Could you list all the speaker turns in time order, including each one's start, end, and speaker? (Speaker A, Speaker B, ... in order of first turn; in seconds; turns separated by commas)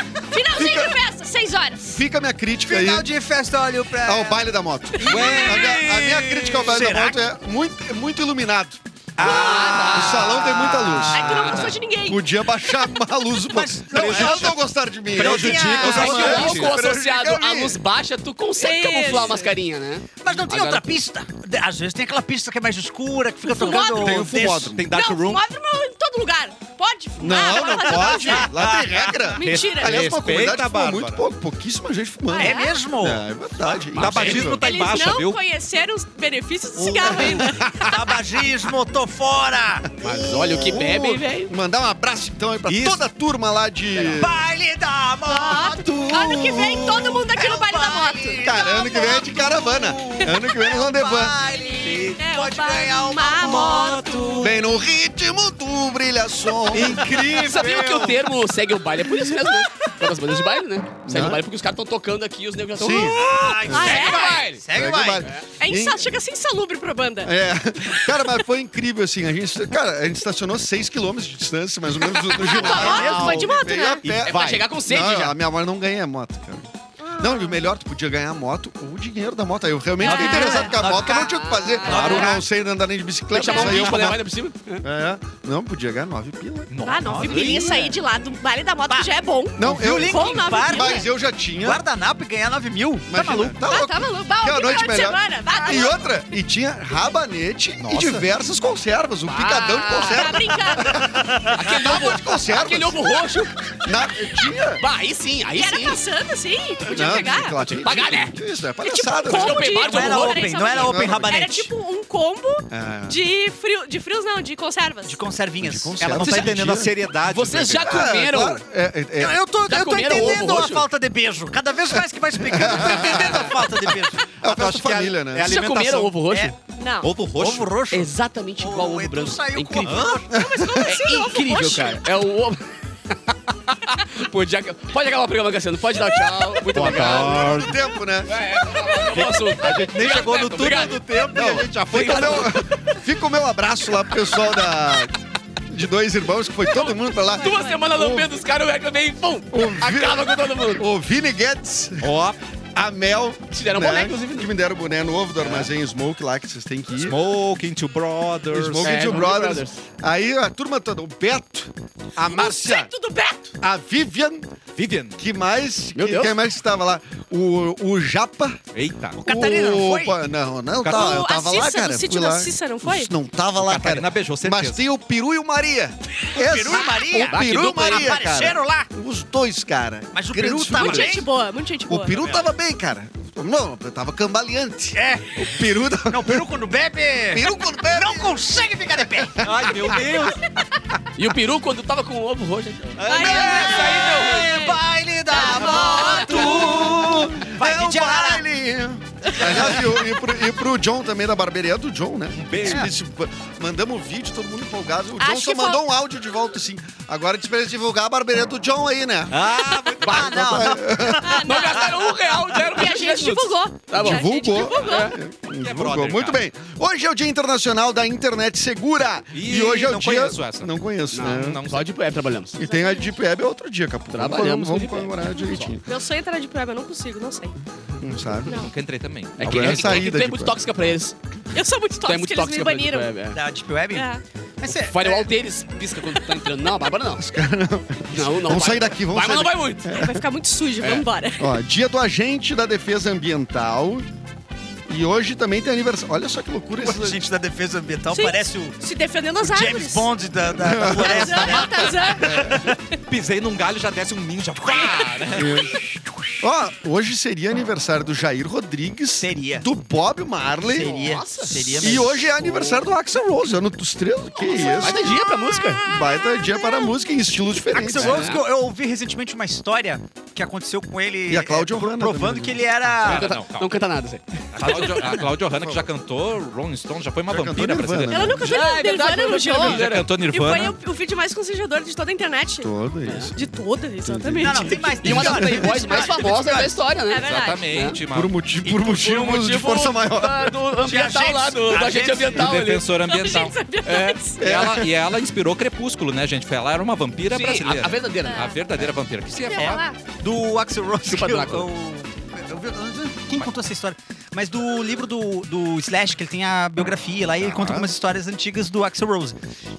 Speaker A: 0.2-2.0, Speaker B: 0.4-0.9, Speaker B: 1.9-3.1, Speaker C: 2.6-4.5, Speaker B: 4.0-17.8, Speaker A: 5.0-5.8, Speaker D: 5.0-6.5, Speaker C: 5.1-7.2, Speaker C: 9.2-11.8, Speaker E: 9.2-10.4, Speaker A: 9.2-9.9, Speaker A: 11.1-12.9, Speaker C: 13.5-14.6, Speaker D: 13.9-14.6, Speaker C: 15.1-16.7, Speaker E: 15.2-20.9, Speaker D: 15.2-16.8, Speaker A: 18.6-19.5, Speaker C: 20.2-24.8, Speaker A: 23.4-24.3, Speaker B: 23.6-24.8, Speaker D: 24.8-25.4, Speaker A: 24.9-28.5, Speaker B: 27.2-34.6, Speaker C: 27.5-29.3, Speaker A: 29.3-30.0, Speaker D: 29.4-31.2, Speaker A: 32.3-32.8, Speaker C: 32.3-33.2, Speaker E: 33.9-34.5, Speaker D: 34.0-35.4, Speaker A: 34.5-38.1, Speaker C: 36.8-39.9, Speaker B: 37.1-37.7, Speaker E: 40.0-41.5, Speaker B: 40.0-44.3, Speaker D: 42.7-43.0, Speaker E: 43.9-44.2, Speaker C: 44.1-48.6, Speaker A: 45.3-50.7, Speaker B: 48.4-51.4, Speaker C: 49.6-54.6, Speaker A: 51.5-54.4, Speaker D: 53.5-54.5, Speaker B: 54.4-57.7, Speaker D: 56.7-58.1, Speaker C: 56.8-57.8, Speaker E: 57.3-64.6, Speaker B: 61.0-61.4, Speaker B: 62.8-64.1, Speaker C: 62.9-65.3, Speaker A: 63.5-64.4, Speaker B: 64.7-66.1, Speaker A: 65.6-67.3, Speaker B: 67.2-84.2, Speaker A: 67.9-68.4, Speaker A: 72.2-74.0, Speaker D: 72.6-73.5, Speaker C: 72.6-73.4, Speaker D: 74.0-74.7, Speaker E: 74.2-75.3, Speaker A: 77.0-77.6, Speaker A: 80.0-80.8, Speaker C: 80.0-82.4, Speaker E: 80.9-82.4, Speaker D: 81.9-82.4, Speaker E: 83.3-84.8, Speaker A: 83.4-84.0, Speaker B: 84.8-86.7, Speaker D: 86.7-87.8, Speaker A: 86.8-91.1, Speaker C: 87.2-87.9, Speaker E: 87.4-87.8, Speaker C: 88.9-93.6, Speaker B: 89.6-91.8, Speaker B: 93.1-103.3, Speaker A: 93.6-96.0, Speaker D: 97.8-98.3, Speaker E: 99.2-100.5, Speaker A: 100.0-101.1, Speaker C: 101.1-101.4, Speaker E: 101.5-103.6, Speaker B: 103.8-104.8, Speaker E: 104.8-106.0, Speaker A: 105.5-107.6, Speaker B: 106.8-109.7, Speaker E: 107.6-108.4, Speaker A: 108.8-115.2, Speaker E: 109.2-110.7, Speaker C: 109.7-111.7, Speaker B: 110.7-111.3, Speaker B: 112.7-113.2, Speaker C: 115.0-116.8, Speaker B: 115.6-117.0, Speaker D: 116.0-118.0, Speaker E: 117.3-118.6, Speaker B: 117.8-119.4, Speaker C: 119.2-124.2, Speaker E: 119.7-120.9, Speaker B: 122.4-125.6, Speaker D: 124.4-126.1, Speaker E: 125.4-126.5, Speaker A: 126.8-127.1, Speaker D: 127.0-127.7, Speaker C: 127.3-130.4, Speaker E: 127.9-130.1, Speaker D: 129.8-130.2, Speaker A: 130.3-132.0, Speaker B: 130.3-130.9, Speaker E: 130.8-137.5, Speaker D: 136.7-137.8, Speaker B: 136.8-138.4, Speaker E: 138.2-141.3, Speaker D: 139.1-142.6, Speaker B: 141.3-148.3, Speaker E: 141.9-143.0, Speaker A: 146.6-147.9, Speaker E: 147.4-150.8, Speaker B: 149.5-152.1, Speaker D: 152.0-152.4, Speaker B: 152.7-157.2, Speaker E: 153.5-154.5, Speaker E: 155.4-155.7, Speaker D: 157.0-159.1, Speaker B: 158.5-162.9, Speaker E: 158.8-159.8, Speaker A: 162.2-163.5, Speaker B: 163.6-164.5, Speaker D: 164.8-165.2, Speaker B: 165.2-168.6, Speaker E: 165.9-166.3, Speaker D: 168.7-169.2, Speaker C: 169.2-170.2, Speaker B: 169.2-181.2, Speaker D: 170.8-171.2, Speaker A: 170.8-173.1, Speaker D: 173.6-174.8, Speaker C: 176.3-178.9, Speaker E: 177.1-178.2, Speaker C: 180.1-181.3, Speaker A: 180.7-182.2, Speaker B: 181.9-186.5, Speaker C: 182.2-182.5, Speaker C: 184.9-190.4, Speaker B: 187.3-188.6, Speaker B: 189.1-189.9, Speaker D: 189.4-190.4, Speaker E: 191.1-193.2, Speaker D: 193.0-193.8, Speaker A: 193.0-194.8, Speaker C: 193.1-198.4, Speaker A: 195.3-196.8, Speaker D: 195.6-196.4, Speaker B: 196.1-209.5, Speaker C: 199.5-199.8, Speaker D: 202.3-202.9, Speaker C: 202.6-202.9, Speaker A: 205.2-205.8, Speaker D: 209.3-210.4, Speaker C: 210.0-211.6, Speaker E: 210.0-210.4, Speaker B: 210.0-211.4, Speaker A: 211.2-212.0, Speaker E: 211.4-215.2, Speaker A: 212.5-215.1, Speaker B: 214.0-221.6, Speaker D: 215.6-216.4, Speaker D: 219.3-220.7, Speaker E: 221.1-222.6, Speaker D: 221.2-221.9, Speaker B: 222.5-225.8, Speaker A: 222.6-223.2, Speaker E: 224.1-225.8, Speaker A: 225.6-227.6, Speaker B: 228.0-228.6, Speaker D: 228.4-230.2, Speaker E: 229.4-231.1, Speaker B: 229.4-230.6, Speaker A: 231.5-233.1, Speaker E: 232.0-233.4, Speaker C: 233.3-235.3, Speaker A: 233.9-234.2, Speaker E: 234.8-237.2, Speaker B: 237.2-240.2, Speaker E: 238.1-239.9, Speaker A: 239.9-241.6, Speaker B: 241.4-244.1, Speaker B: 244.9-247.2, Speaker C: 246.8-248.8, Speaker A: 248.1-250.1, Speaker C: 249.4-252.7, Speaker B: 250.5-252.7, Speaker A: 250.8-252.7, Speaker D: 253.1-255.8, Speaker B: 255.3-255.7, Speaker B: 256.4-261.1, Speaker C: 259.2-259.7, Speaker C: 260.6-262.6, Speaker E: 260.8-261.9, Speaker B: 261.8-265.1, Speaker E: 262.4-262.8, Speaker A: 264.4-264.9, Speaker E: 264.7-265.9, Speaker B: 265.9-268.3, Speaker A: 266.0-266.9, Speaker C: 267.7-273.3, Speaker E: 267.9-268.4, Speaker B: 271.3-272.6, Speaker D: 273.0-273.8, Speaker E: 273.0-274.8, Speaker D: 274.5-278.4, Speaker C: 274.6-275.3, Speaker B: 275.6-275.9, Speaker B: 277.3-278.6, Speaker A: 278.1-282.7, Speaker E: 278.4-280.1, Speaker D: 279.6-280.7, Speaker B: 282.6-283.4, Speaker E: 283.0-283.3, Speaker A: 283.3-284.9, Speaker B: 284.0-285.8, Speaker C: 284.4-286.8, Speaker E: 285.0-288.0, Speaker A: 287.1-287.7, Speaker D: 287.2-288.4, Speaker B: 288.1-290.6, Speaker E: 288.6-292.9, Speaker C: 290.8-292.5, Speaker D: 292.4-293.6, Speaker A: 293.1-294.4, Speaker E: 293.8-294.2, Speaker D: 294.4-299.8, Speaker B: 294.4-294.9, Speaker E: 297.3-298.6, Speaker A: 298.2-298.6, Speaker A: 299.4-300.0, Speaker C: 299.5-309.4, Speaker E: 301.0-301.7, Speaker D: 307.4-307.9